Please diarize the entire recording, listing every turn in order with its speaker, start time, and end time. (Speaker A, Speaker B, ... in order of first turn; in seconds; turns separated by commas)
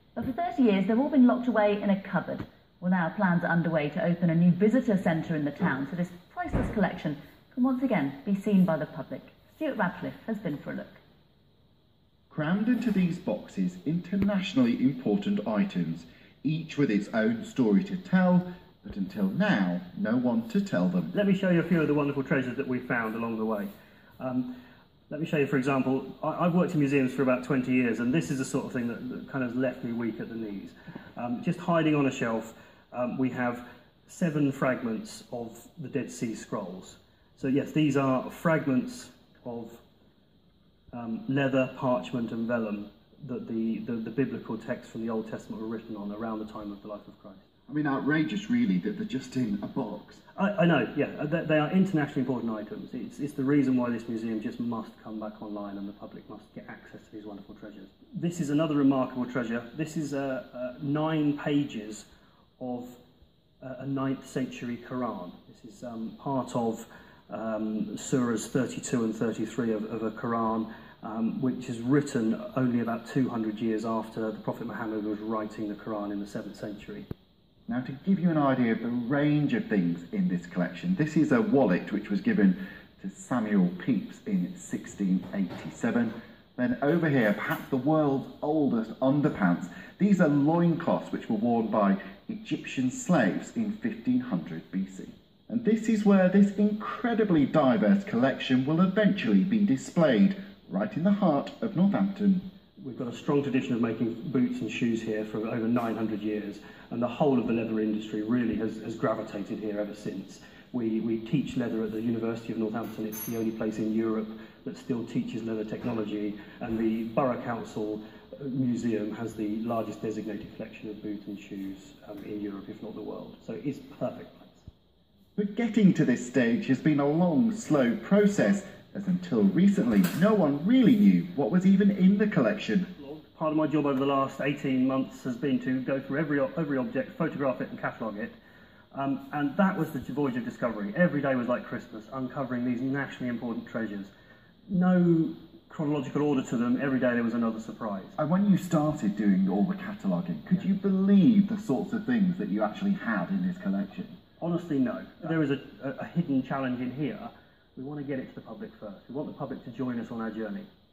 Speaker A: 0.1-11.0, Speaker B: 12.3-21.1, Speaker C: 21.1-24.5, Speaker C: 25.1-39.8, Speaker C: 40.9-47.5, Speaker B: 47.7-50.2, Speaker C: 50.3-62.1, Speaker C: 62.6-63.0, Speaker C: 63.6-77.1, Speaker B: 77.7-102.5, Speaker C: 102.8-124.7, Speaker B: 125.4-132.9, Speaker C: 133.0-138.3, Speaker C: 138.9-144.1, Speaker C: 144.7-148.2, Speaker B: 148.2-154.2, Speaker C: 154.4-160.7